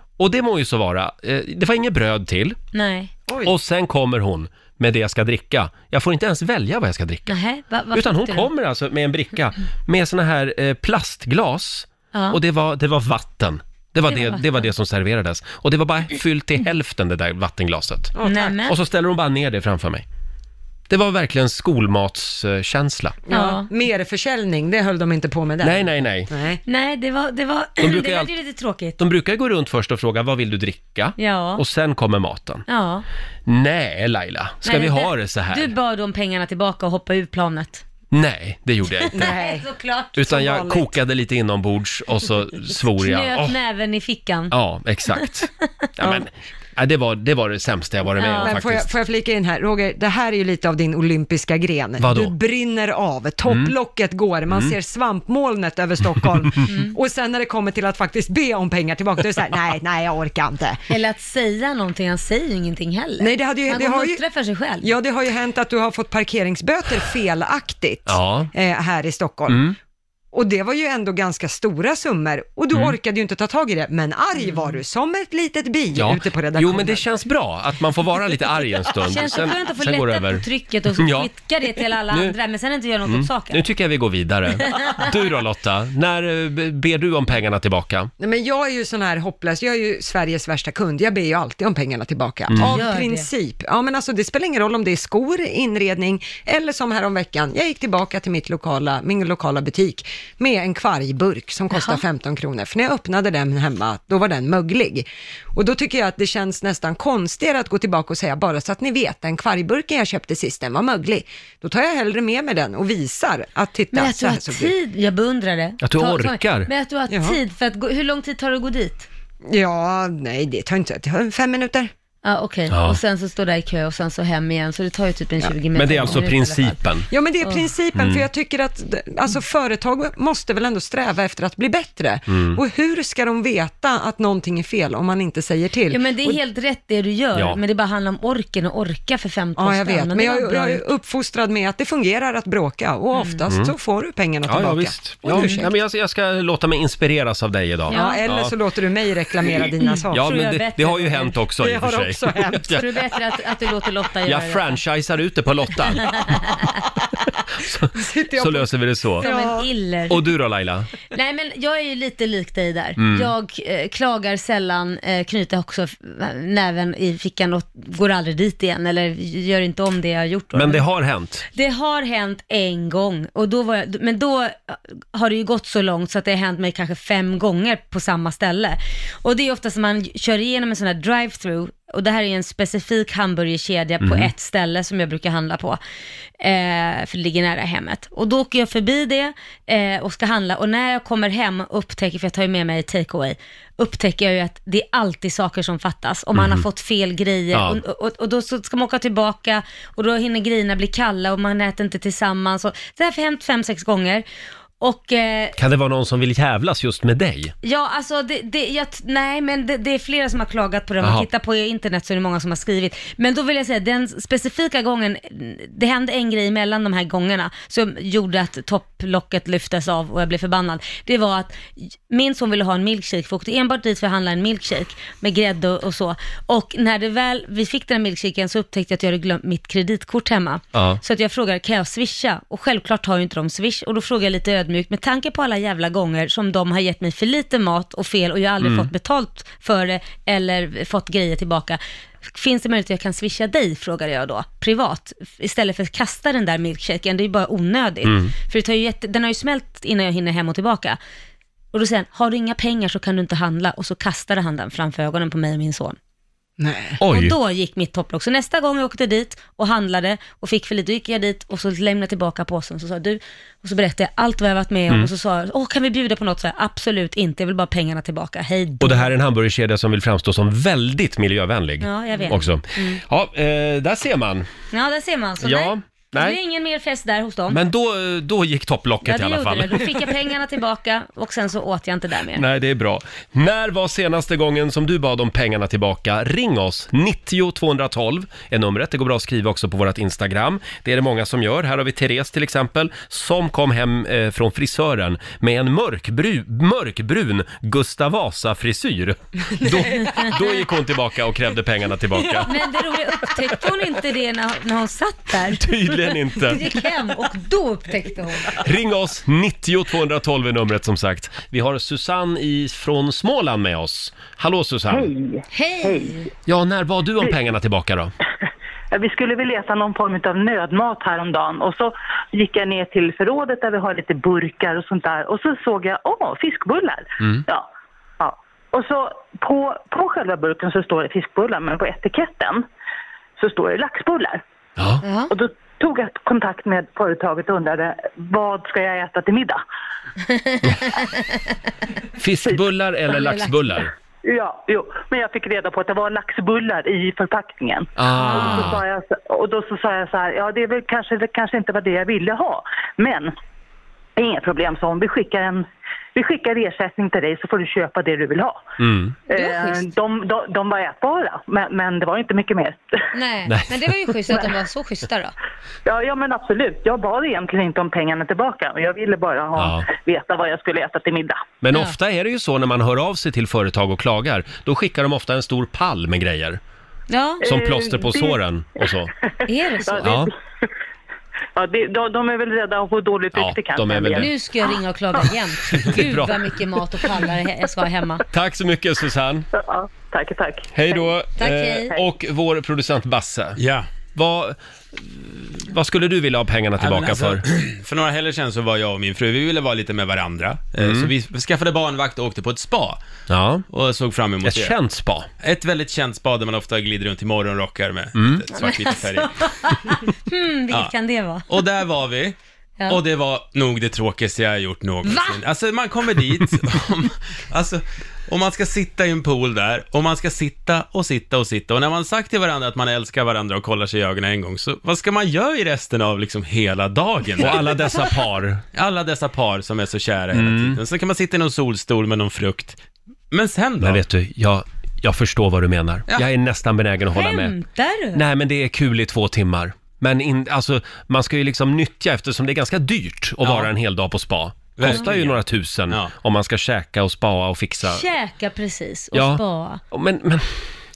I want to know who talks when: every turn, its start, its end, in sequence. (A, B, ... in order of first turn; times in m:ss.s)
0:00.2-0:02.6 A
0:02.7-0:03.1 B
0:03.4-0:07.4 A
0:07.3-0:08.5 B
0:07.9-0:20.0 A
0:12.1-0:12.4 B
0:14.1-0:14.7 B
0:18.2-0:18.6 C
0:18.2-0:18.8 B
0:20.9-0:23.2 A
0:23.3-0:26.6 C
0:23.3-0:23.7 B
0:25.6-0:26.3 A
0:26.7-0:29.0 B
0:27.8-0:28.3 A
0:29.0-0:32.6 A
0:31.2-0:31.6 B
0:32.7-0:33.0 B
0:33.5-0:35.7 A
0:34.6-0:37.8 B
0:38.1-0:39.3 A
0:39.1-0:39.7 C
0:39.1-0:40.4 B
0:40.2-0:43.6 A
0:40.3-0:40.9 C
0:43.0-0:44.5 B
0:44.5-0:48.9 A
0:48.2-0:48.6 B
0:48.4-1:00.8 C
0:52.0-0:52.4 A
0:53.5-0:53.7 A
0:56.7-0:57.0 B
1:00.9-1:04.9 B
1:03.2-1:04.2 C
1:04.8-1:09.7 C
1:08.1-1:08.5 A
1:09.5-1:09.8 A
1:10.3-1:17.0 C
1:14.4-1:14.8 B
1:16.0-1:21.3 A
1:19.0-1:23.6 B
1:22.1-1:22.4 A
1:23.0-1:28.1 A
1:24.6-1:25.1 B
1:28.2-1:54.8 C
1:32.5-1:32.8 A
1:32.6-1:33.3 B
1:41.7-1:42.0 B
1:53.9-1:59.1 B
1:55.8-1:56.7 A
1:57.1-1:57.4 C
1:59.5-2:01.9 C
2:02.2-2:06.8 B
2:02.7-2:03.0 A
2:05.7-2:07.1 A
2:07.1-2:16.4 C
2:07.4-2:07.7 B
2:08.0-2:08.3 A
2:12.3-2:12.6 A
2:15.9-2:20.8 B
2:17.4-2:17.6 A
2:19.6-2:25.6 C
2:23.1-2:23.4 B
2:24.5-2:28.5 A
2:25.3-2:25.6 B
2:27.9-2:28.3 B
2:27.9-2:30.2 C
2:29.8-2:31.4 B
2:30.1-2:32.9 A
2:31.6-2:33.1 C
2:32.8-2:34.8 B
2:34.2-2:36.2 A
2:37.6-2:39.3 A
2:38.0-2:39.7 C
2:39.2-2:40.2 B
2:40.1-2:40.9 A
2:41.1-2:50.8 B
2:43.0-2:43.3 A
2:50.5-2:51.4 A
2:51.5-3:05.8 B
3:04.0-3:04.3 A
3:06.4-3:24.3 B
3:16.3-3:16.7 A
3:17.5-3:17.8 A
3:24.8-3:25.6 B
3:25.6-3:27.5 A
3:27.6-4:11.0 B
3:31.0-3:31.3 A
3:50.7-3:51.0 A
3:58.6-3:58.9 A
4:08.0-4:08.3 A
4:11.7-4:16.0 B
4:16.6-4:17.0 C
4:17.0-4:17.4 A
4:17.1-4:29.1 B
4:28.8-4:34.5 A
4:31.8-4:33.0 B
4:34.7-4:37.6 B
4:35.4-4:36.4 A
4:37.5-4:39.8 A
4:39.0-4:42.4 B
4:42.4-5:02.5 A
5:02.5-5:05.7 B
5:05.5-5:06.6 A
5:06.4-5:08.6 B
5:08.6-5:15.1 A
5:15.0-5:16.1 D
5:15.5-5:16.3 B
5:16.5-5:18.1 A
5:18.9-5:27.7 D
5:28.2-5:32.6 D
5:33.4-5:34.4 D
5:34.8-5:35.0 A
5:35.0-5:35.4 B
5:35.3-5:39.6 D
5:40.3-5:41.4 B
5:42.2-5:43.9 A
5:43.1-5:43.7 B
5:44.3-5:53.3 D
5:48.0-5:48.8 A
5:48.1-5:48.8 B
5:54.2-5:55.6 D
5:56.2-5:58.6 D
5:58.8-5:59.2 A
5:59.3-6:02.8 D
5:59.3-5:59.9 B
6:03.1-6:05.3 B
6:03.5-6:03.9 A
6:05.9-6:11.4 D
6:09.6-6:09.9 A
6:11.6-6:16.6 A
6:17.1-6:17.5 B
6:17.4-6:19.1 A
6:17.5-6:18.3 D
6:19.4-6:20.2 B
6:19.9-6:20.2 D
6:20.0-6:20.3 A
6:21.6-6:24.3 D
6:23.3-6:24.3 A
6:24.2-6:28.2 B
6:25.7-6:26.4 A
6:28.3-6:29.5 A
6:29.6-6:30.7 D
6:30.7-6:33.6 A
6:31.4-6:32.0 B
6:33.6-6:33.9 E
6:34.2-6:37.4 A
6:36.8-6:43.0 E
6:40.8-6:41.1 A
6:43.3-6:43.7 A
6:43.7-6:44.8 E
6:44.4-6:45.3 A
6:45.4-6:49.7 E
6:48.2-6:48.4 A
6:48.6-6:51.4 B
6:51.5-6:52.4 E
6:52.9-7:07.8 E
6:55.0-6:55.4 B
7:07.4-7:08.6 A
7:08.7-7:12.8 E
7:10.3-7:10.8 A
7:13.3-7:14.0 E
7:13.8-7:17.6 A
7:17.1-7:18.2 B
7:18.1-7:28.0 A
7:23.4-7:23.7 E
7:24.8-7:26.1 E
7:27.8-7:29.8 B
7:29.1-7:30.7 A